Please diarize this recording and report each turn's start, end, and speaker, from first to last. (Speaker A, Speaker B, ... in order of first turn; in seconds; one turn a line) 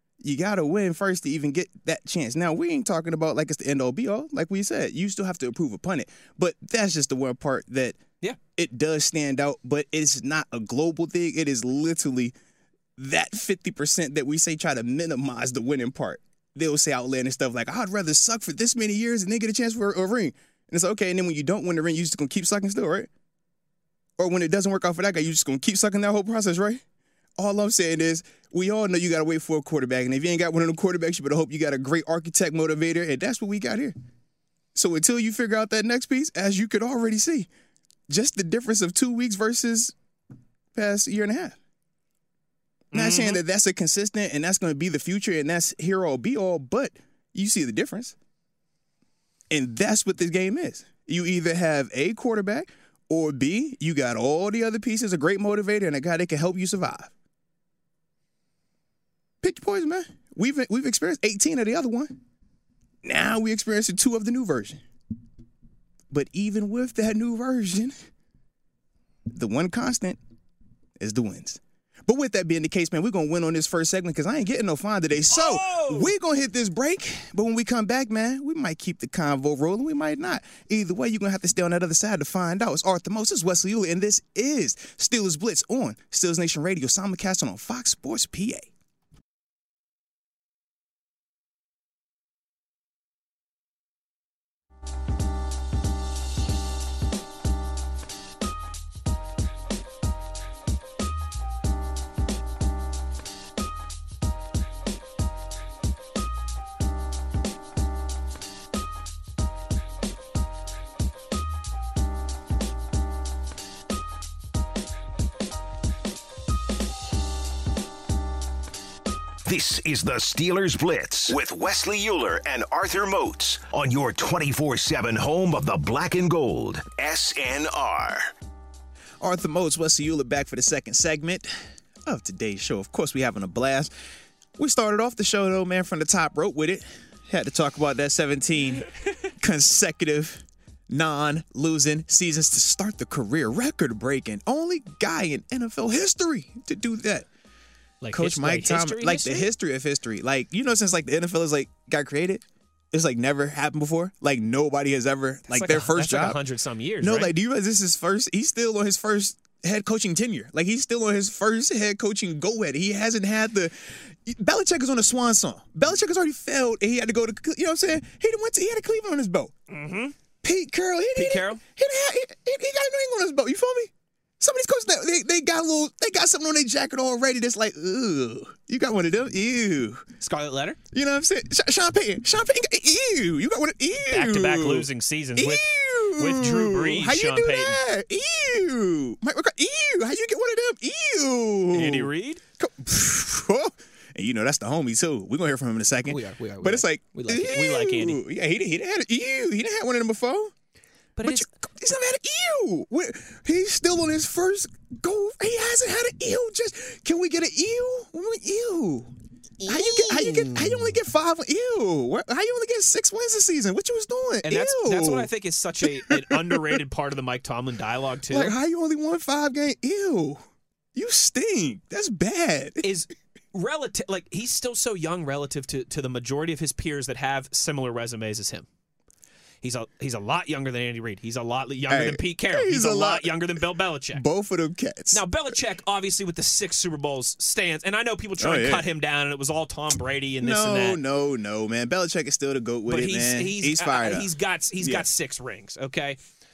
Speaker A: 0.2-8.0
Speaker A: 8.6-12.3
Speaker A: 13.0-23.1
Speaker A: 24.2-26.8
Speaker A: 27.4-33.9
Speaker A: 34.7-37.5
Speaker A: 38.1-39.9
Speaker A: 40.7-41.5
Speaker B: 42.9-43.4
Speaker A: 42.9-48.1
Speaker A: 49.5-57.1
Speaker A: 59.4-62.1
Speaker A: 63.0-64.8
Speaker A: 66.1-67.9
Speaker A: 69.3-70.2
Speaker A: 71.0-88.7
Speaker B: 75.3-76.1
Speaker C: 119.4-128.3
Speaker A: 129.2-131.5
Speaker A: 132.1-133.9
Speaker A: 134.6-138.8
Speaker A: 139.4-147.3
Speaker B: 148.0-149.5
Speaker A: 148.1-156.4
Speaker B: 155.5-157.3
Speaker A: 157.0-169.5
Speaker B: 169.7-170.2
Speaker A: 170.4-180.0
Speaker B: 171.2-171.6
Speaker B: 180.2-180.8
Speaker A: 180.9-200.5
Speaker B: 184.1-187.8
Speaker B: 191.7-192.4
Speaker B: 196.1-198.2
Speaker B: 201.2-201.4
Speaker A: 201.2-209.1
Speaker B: 209.6-210.9
Speaker A: 209.7-215.3
Speaker B: 214.4-218.5
Speaker A: 215.8-216.8
Speaker A: 218.3-220.4
Speaker A: 220.9-222.8
Speaker B: 222.8-228.7
Speaker B: 229.6-234.2
Speaker A: 231.9-233.4
Speaker A: 234.1-235.2
Speaker B: 235.1-241.0
Speaker A: 238.4-238.8
Speaker A: 240.4-244.3
Speaker B: 242.9-246.2
Speaker A: 244.8-245.1